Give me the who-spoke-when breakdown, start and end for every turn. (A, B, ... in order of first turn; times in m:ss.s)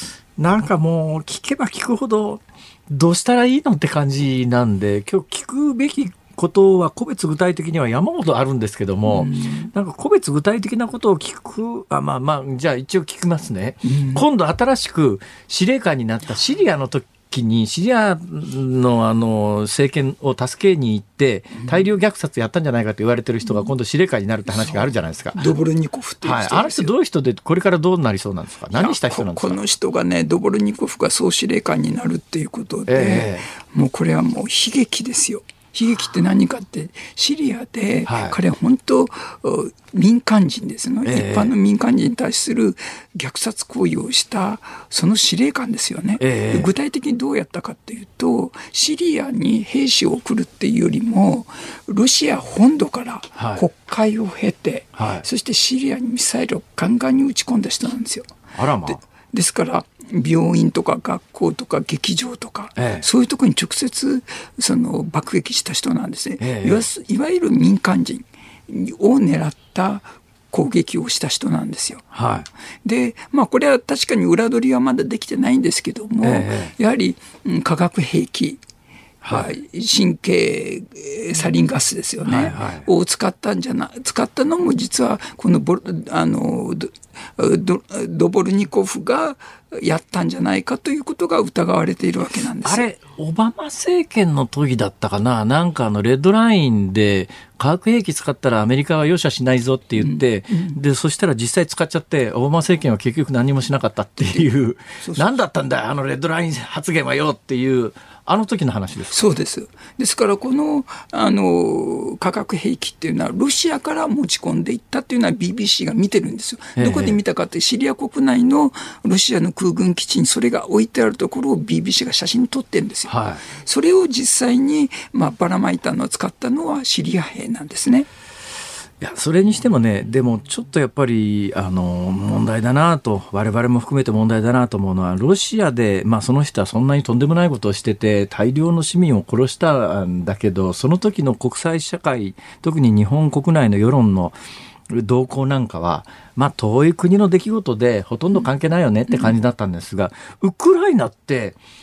0:00.4-0:25.5 A
0:09.1-0:09.7 B
0:13.8-0:14.2 B
0:21.6-0:21.8 B
0:24.5-0:26.9 B
0:26.2-0:29.6 A
0:28.7-1:12.0 B
0:32.9-0:33.5 A
0:38.0-0:38.4 A
0:41.0-0:41.5 A
0:46.2-0:46.7 A
0:53.4-0:53.6 A
0:55.0-0:55.2 A
0:58.5-0:59.0 A
1:02.8-1:03.1 A
1:06.4-1:06.9 A
1:12.1-1:12.5 A
1:12.8-1:18.6 B
1:16.2-1:16.7 A
1:19.2-1:19.5 A
1:19.3-1:32.8 B
1:22.2-1:22.9 A
1:32.6-1:49.2 A
1:40.0-1:40.8 B
1:45.0-1:45.3 B
1:49.1-2:08.1 B
1:56.8-1:57.2 A
2:03.1-2:03.4 A
2:09.0-2:24.3 A
2:24.9-2:31.6 A
2:29.1-2:29.3 B